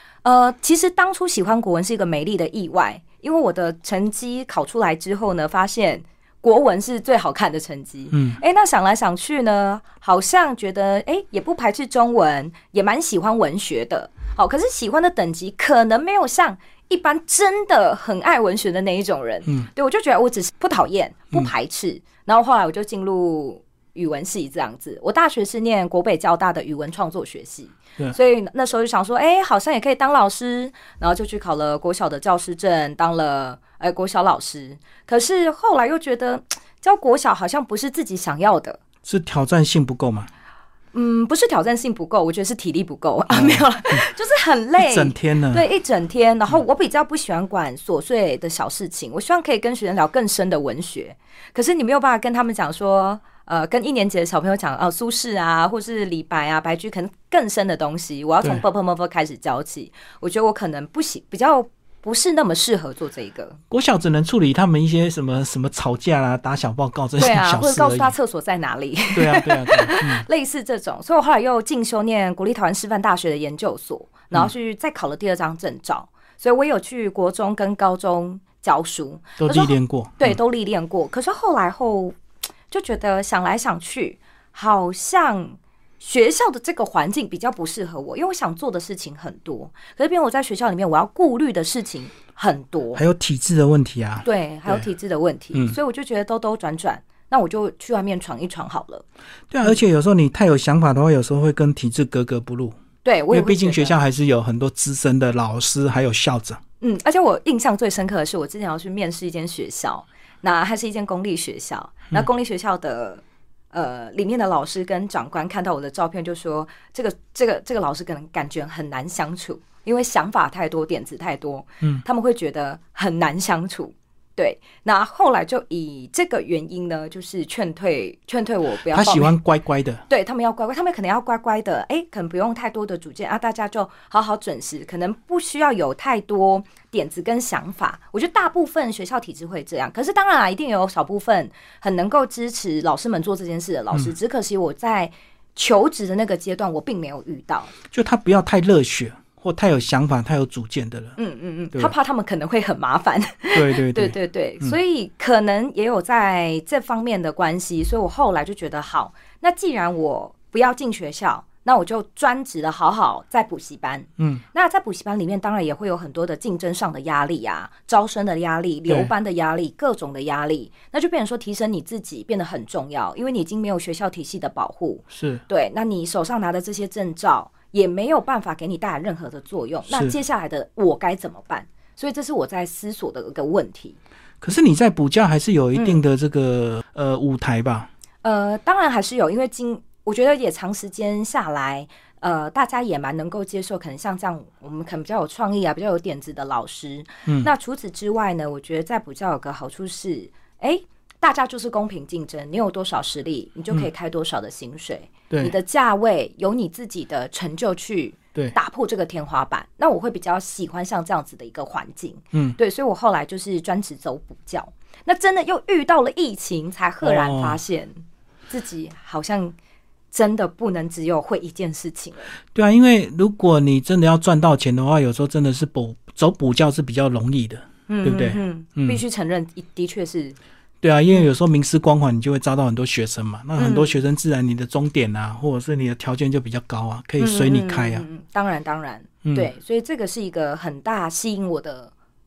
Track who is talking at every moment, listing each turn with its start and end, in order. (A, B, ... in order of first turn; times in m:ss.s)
0:00.2-0:38.8 A
0:08.1-0:08.4 B
0:39.0-0:40.3 B
0:40.9-1:03.6 A
0:43.3-0:43.6 B
0:44.8-0:45.6 B
1:03.7-1:08.1 B
1:07.2-1:22.2 A
1:09.1-1:10.2 B
1:19.4-1:20.4 B
1:22.7-1:33.0 A
1:32.9-1:34.8 B
1:34.2-1:39.0 A
1:39.5-1:42.8 B
1:43.0-1:43.9 A
1:43.3-1:46.6 B
1:46.8-2:09.3 A
2:08.9-2:10.0 B
2:10.1-2:27.7 A
2:27.9-2:31.2 B
2:31.2-3:04.0 A
2:33.5-2:34.7 B
2:55.1-2:55.4 B
2:59.9-3:00.1 B
3:04.4-3:07.9 B
3:08.2-3:39.5 A
3:25.3-3:25.5 B
3:37.0-3:37.6 B
3:40.1-3:42.3 A
3:42.5-3:49.0 B
3:47.9-3:50.4 A
3:50.8-3:58.0 B
3:53.6-3:53.9 A
3:57.2-4:01.9 A
3:59.2-3:59.5 B